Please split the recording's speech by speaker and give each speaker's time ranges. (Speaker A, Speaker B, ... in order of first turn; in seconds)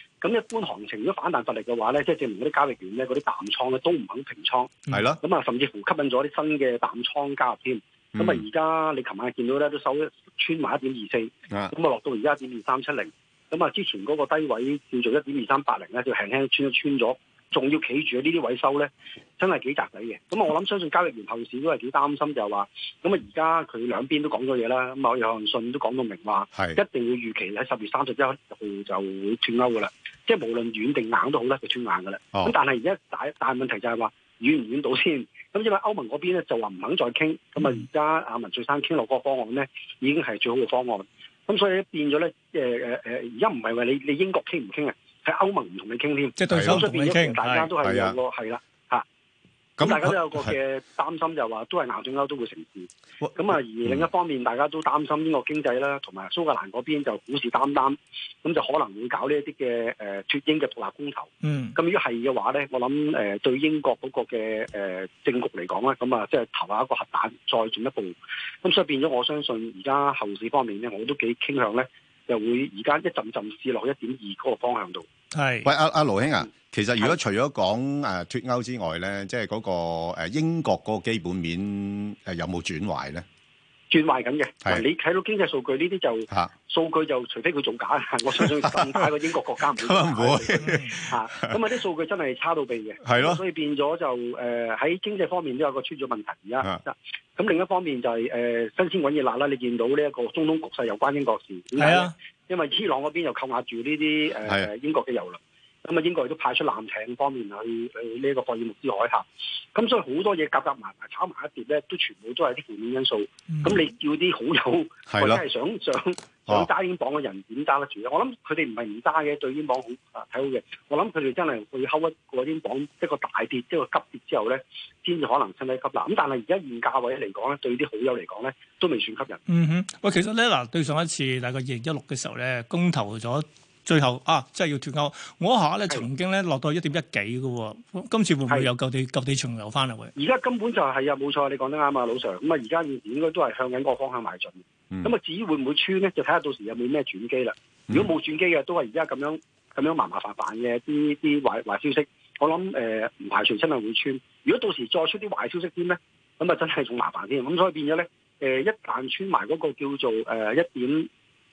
Speaker A: 0.2-49.0, 49.8-75.1, 83.9-129.4, 140.2-161.1
Speaker B: 4.9-5.2, 8.2-8.4, 26.5-26.8, 46.5-46.9, 47.8-48.2, 49.8-50.5, 53.2-54.1, 75.7-83.2, 88.5-89.1, 89.8-91.6, 93.0-93.4, 115.1-115.4
Speaker C: 46.4-47.7, 61.4-61.7, 75.3-75.7, 90.6-90.9, 101.8-102.1, 113.5-113.8, 129.5-140.1